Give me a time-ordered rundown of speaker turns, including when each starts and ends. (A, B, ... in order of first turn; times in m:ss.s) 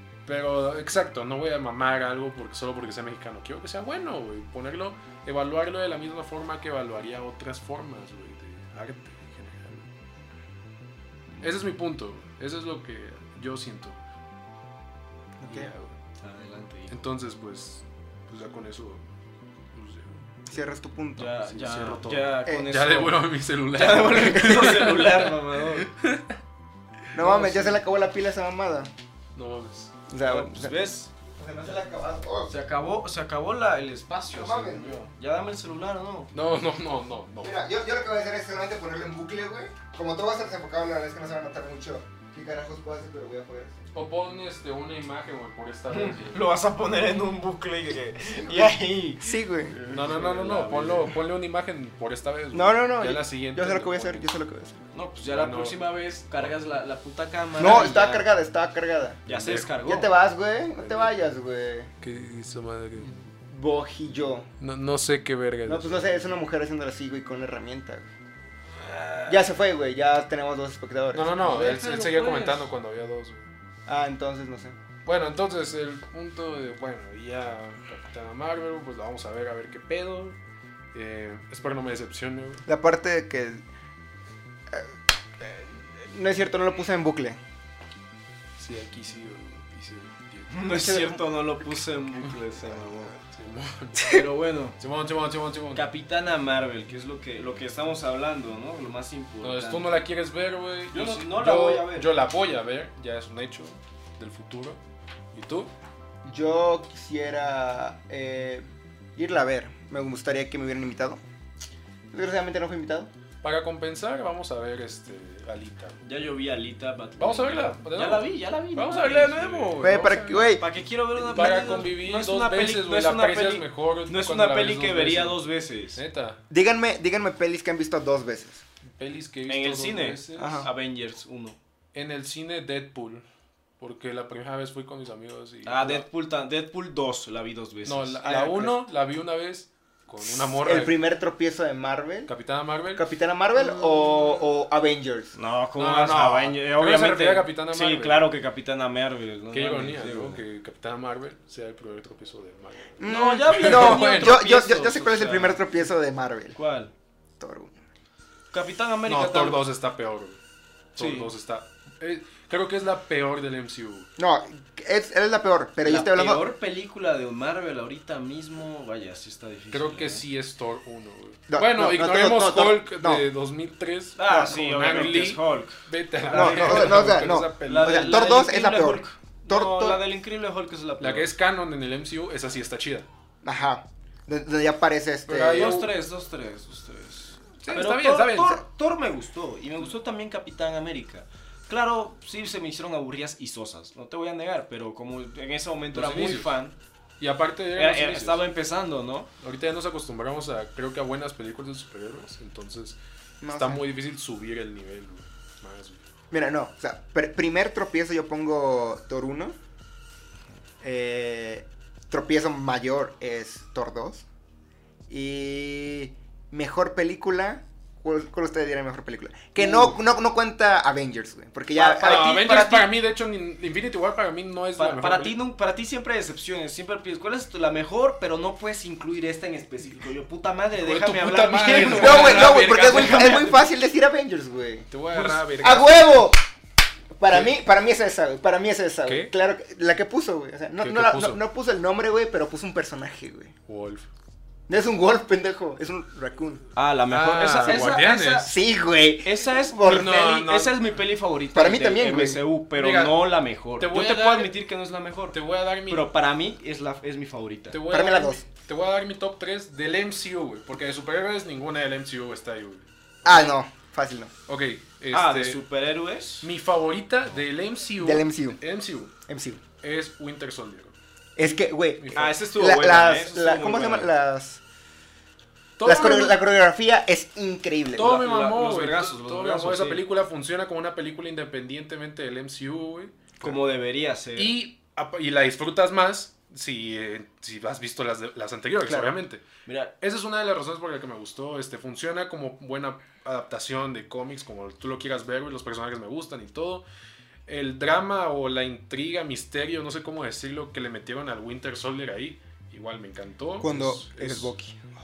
0:00.2-0:09.9 A
0:11.3-0:11.6 B
0:11.4-0:14.0 A
0:15.4-0:15.8 C
0:15.5-0:17.0 B
0:16.9-0:19.1 A
0:19.7-0:20.2 A
0:20.5-0:21.3 C
0:21.2-0:25.9 B
0:21.4-0:26.4 A
0:27.1-0:27.7 A
0:27.1-0:28.9 C
0:27.2-0:27.6 B
0:29.3-0:29.9 A
0:30.1-0:30.8 C
0:30.2-0:31.1 B
0:31.3-0:32.5 C
0:32.4-0:36.3 B
0:34.3-0:35.0 C
0:36.3-0:37.6 A
0:37.4-0:43.8 C
0:43.9-0:46.5 A
0:45.9-0:51.1 B
0:48.5-0:49.8 C
0:49.9-0:54.3 A
0:52.5-0:54.9 C
0:54.9-0:58.2 B
0:55.2-0:56.5 A
0:57.5-1:01.9 C
0:59.2-1:00.1 B
0:59.3-0:59.7 A
1:02.0-1:03.1 A
1:03.0-1:04.5 C
1:04.6-1:06.2 A
1:05.6-1:08.1 C
1:08.9-1:09.3 A
1:09.3-1:11.6 C
1:11.1-1:13.5 A
1:11.4-1:12.7 B
1:13.9-1:14.8 C
1:15.0-1:20.4 A
1:20.9-1:22.6 A
1:22.6-1:23.6 C
1:24.7-1:27.4 C
1:28.6-1:30.7 A
1:30.5-1:33.1 B
1:30.7-1:31.2 C
1:32.9-1:34.2 A
1:34.1-1:34.8 B
1:34.8-1:35.9 A
1:35.7-1:40.0 B
1:39.4-1:44.8 A
1:40.9-1:42.1 B
1:45.3-1:45.7 A
1:46.2-1:48.6 C
1:49.2-1:51.2 C
1:52.1-1:53.1 C
1:53.4-1:56.0 A
1:56.0-1:59.9 B
1:57.2-2:00.5 A
1:59.8-2:00.6 C
2:00.6-2:06.0 B
2:01.2-2:05.4 A
2:05.9-2:06.4 A
2:06.5-2:08.6 C
2:08.8-2:10.7 A
2:09.4-2:11.6 B
2:10.4-2:10.7 C
2:11.9-2:13.2 A
2:13.8-2:16.0 A
2:15.6-2:18.7 B
2:17.8-2:21.0 A
2:18.2-2:18.6 C
2:20.2-2:22.3 C
2:22.3-2:23.0 A
2:22.9-2:25.3 C
2:25.3-2:30.4 B
2:25.8-2:28.3 A
2:29.5-2:34.4 A
2:33.0-2:36.6 C
2:33.0-2:35.6 B
2:36.5-2:36.9 B
2:37.4-2:37.8 C
2:38.5-2:39.6 B
2:39.0-2:40.4 A
2:41.0-2:44.1 A
2:41.0-2:41.3 B
2:44.2-2:46.4 C
2:45.8-2:50.2 B
2:49.7-2:58.3 A
2:51.5-2:53.2 C
2:54.2-3:01.3 B
2:56.3-3:00.0 C
3:01.0-3:03.1 A
3:03.4-3:05.8 C
3:05.3-3:05.9 A
3:05.3-3:16.7 B
3:07.6-3:08.6 A
3:15.9-3:16.5 A
3:17.2-3:18.4 A
3:17.7-3:19.3 B
3:19.4-3:23.0 A
3:23.4-3:23.8 C
3:23.5-3:26.0 A
3:26.3-3:29.6 C
3:30.8-3:34.2 C
3:35.1-3:42.4 C
3:39.6-3:39.9 B
3:41.8-3:42.9 B
3:41.9-3:45.4 A
3:44.8-3:53.6 B
3:50.7-3:53.5 A
3:51.9-3:54.9 C
3:54.9-3:56.2 A
3:55.1-3:55.8 B
3:55.6-3:56.4 C
3:57.2-4:03.5 C
3:59.0-3:59.3 A
4:00.8-4:01.4 A
4:03.7-4:04.1 A
4:04.7-4:06.6 C
4:06.7-4:08.5 B
4:07.1-4:08.5 A
4:08.4-4:10.3 C
4:09.2-4:17.8 B
4:09.8-4:10.8 A
4:11.5-4:12.4 C
4:12.8-4:14.5 A
4:15.3-4:16.1 A
4:17.7-4:23.5 A
4:17.9-4:18.4 C
4:23.2-4:24.3 C
4:24.5-4:25.6 A
4:25.1-4:26.5 B
4:26.4-4:29.1 A
4:28.0-4:28.6 C
4:29.3-4:29.6 C
4:29.8-4:32.3 A
4:31.4-4:34.6 C
4:32.1-4:34.1 B
4:35.8-4:36.4 A
4:35.8-4:38.2 C
4:37.9-4:43.6 A
4:38.0-4:40.0 B
4:43.4-4:44.5 B
4:44.4-4:49.4 A
4:48.8-4:49.1 C
4:49.6-4:49.9 B
4:50.0-4:56.8 A
4:57.5-5:04.5 A
5:03.6-5:04.8 C